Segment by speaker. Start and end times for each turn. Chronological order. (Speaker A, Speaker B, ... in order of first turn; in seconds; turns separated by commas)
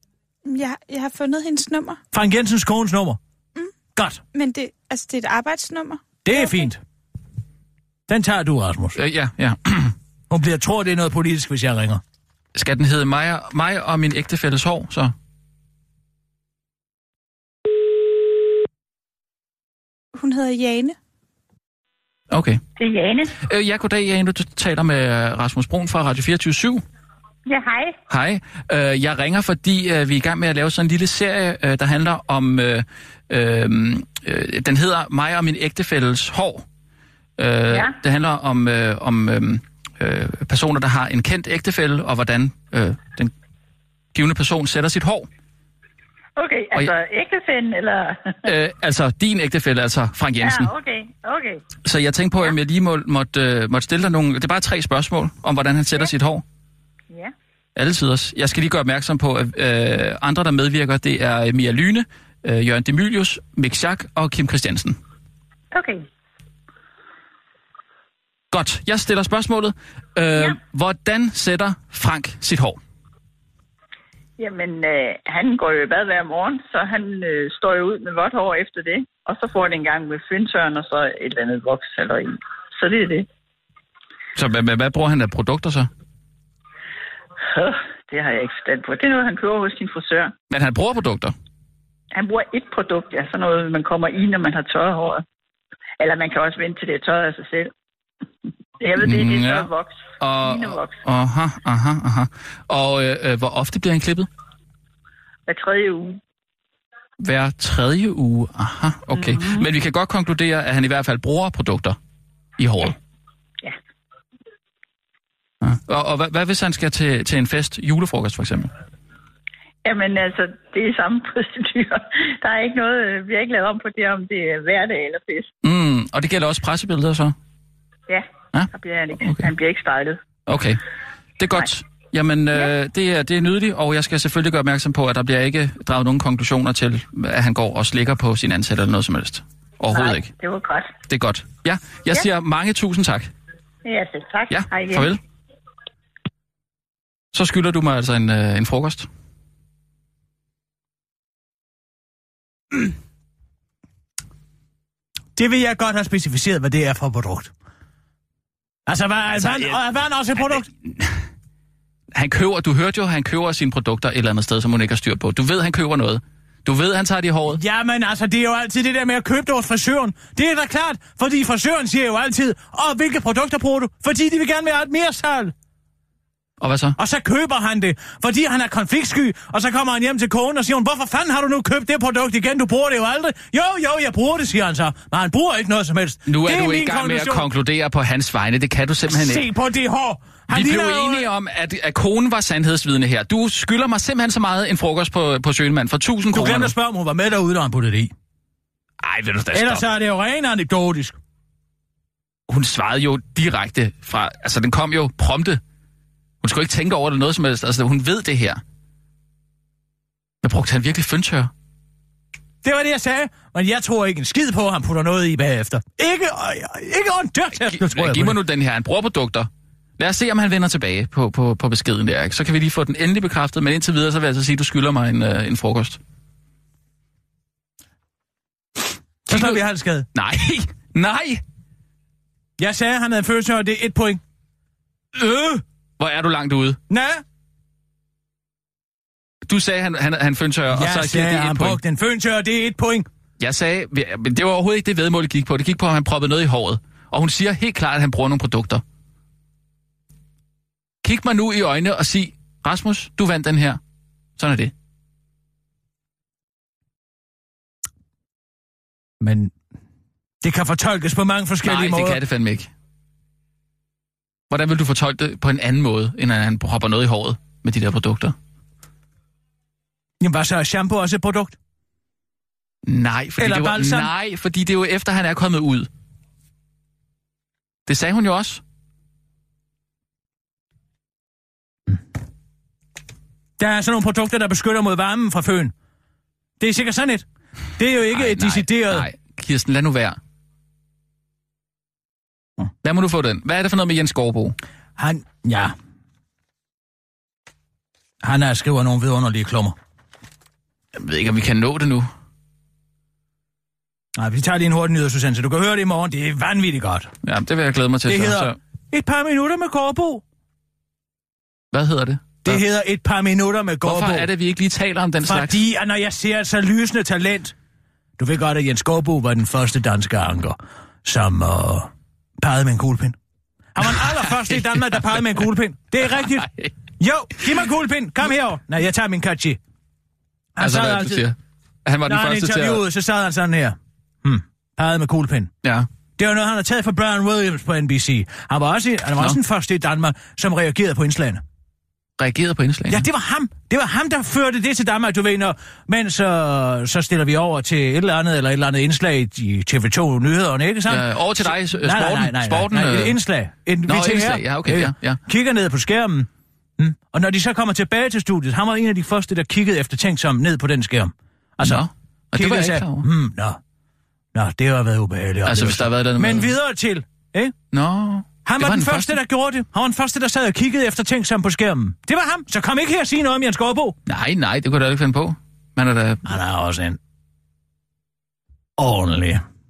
Speaker A: 0.5-2.0, Speaker B: 2.1-3.2, Speaker B: 3.9-4.2, Speaker A: 4.3-6.7, Speaker B: 6.2-6.8, Speaker B: 8.1-9.0, Speaker C: 8.9-9.9, Speaker B: 10.3-12.0, Speaker C: 12.5-15.1, Speaker A: 20.1-20.9, Speaker C: 22.3-22.6, Speaker D: 22.8-23.3, Speaker C: 23.4-26.8, Speaker D: 27.5-27.9, Speaker C: 28.1-36.6, Speaker C: 37.4-43.3, Speaker D: 37.7-38.0, Speaker C: 44.1-45.3, Speaker D: 46.4-48.4, Speaker C: 48.4-50.7, Speaker D: 50.4-51.6, Speaker C: 51.8-56.4, Speaker C: 57.8-65.0, Speaker D: 65.7-66.0, Speaker C: 68.5-72.8, Speaker D: 74.4-83.3, Speaker C: 84.3-85.9, Speaker D: 87.5-90.3, Speaker C: 90.5-91.3, Speaker D: 92.1-95.2, Speaker D: 96.0-97.7, Speaker D: 98.8-101.0, Speaker C: 99.0-99.7, Speaker C: 100.2-104.3, Speaker D: 105.5-106.2, Speaker C: 107.2-112.0, Speaker D: 109.1-109.6, Speaker C: 112.6-113.0, Speaker C: 115.6-118.7, Speaker D: 119.8-125.5, Speaker C: 125.6-127.3, Speaker D: 128.1-130.2, Speaker C: 129.2-129.5, Speaker C: 130.5-130.8, Speaker C: 131.4-140.3, Speaker D: 139.9-140.9, Speaker C: 141.1-143.3, Speaker D: 143.8-145.1, Speaker C: 144.5-145.2, Speaker C: 147.3-149.1, Speaker B: 155.3-157.5, Speaker B: 158.8-160.7, Speaker C: 159.3-159.8, Speaker C: 160.8-161.2, Speaker C: 162.1-167.6, Speaker B: 167.5-175.5, Speaker C: 176.6-177.0, Speaker B: 177.0-187.5, Speaker C: 186.2-189.5, Speaker B: 189.1-191.3, Speaker C: 190.5-196.7, Speaker B: 196.3-198.1, Speaker C: 199.0-199.8, Speaker B: 199.5-201.2, Speaker C: 202.5-205.6, Speaker C: 206.4-208.6, Speaker C: 210.4-211.5, Speaker B: 212.6-218.4, Speaker C: 217.6-226.0, Speaker B: 229.3-230.1, Speaker C: 229.3-231.4, Speaker B: 232.6-234.2, Speaker B: 235.2-235.6, Speaker C: 235.4-236.8, Speaker B: 236.9-237.2, Speaker C: 239.4-241.8, Speaker B: 240.7-243.1, Speaker C: 243.4-248.8, Speaker C: 251.0-253.8, Speaker C: 254.4-254.7, Speaker B: 259.2-259.5, Speaker B: 260.4-262.2, Speaker C: 261.6-262.7, Speaker C: 264.5-268.3, Speaker B: 270.2-271.6, Speaker C: 272.9-275.9, Speaker B: 273.4-274.1, Speaker C: 277.9-278.6, Speaker B: 283.6-285.7, Speaker B: 286.6-287.2, Speaker B: 287.8-289.1, Speaker C: 288.1-290.2, Speaker C: 292.8-294.6, Speaker B: 295.0-295.7, Speaker B: 298.2-299.8, Speaker C: 300.9-302.1, Speaker B: 304.1-307.1, Speaker C: 307.2-308.6, Speaker B: 308.1-310.2, Speaker C: 311.7-312.6, Speaker B: 312.4-314.3, Speaker C: 313.8-315.6, Speaker B: 315.2-317.5, Speaker B: 318.2-323.2, Speaker B: 323.7-329.6, Speaker C: 323.8-325.1, Speaker C: 326.2-326.7, Speaker B: 330.6-331.3, Speaker C: 330.6-332.8, Speaker B: 332.0-335.5, Speaker B: 336.2-341.4, Speaker C: 342.2-343.1, Speaker B: 342.9-363.6, Speaker C: 350.9-353.2, Speaker C: 353.9-355.2, Speaker C: 361.6-363.1, Speaker B: 364.3-367.5, Speaker C: 365.4-366.5, Speaker C: 367.7-369.2, Speaker B: 368.4-373.9, Speaker C: 374.1-376.2, Speaker B: 376.2-377.0, Speaker B: 378.8-379.4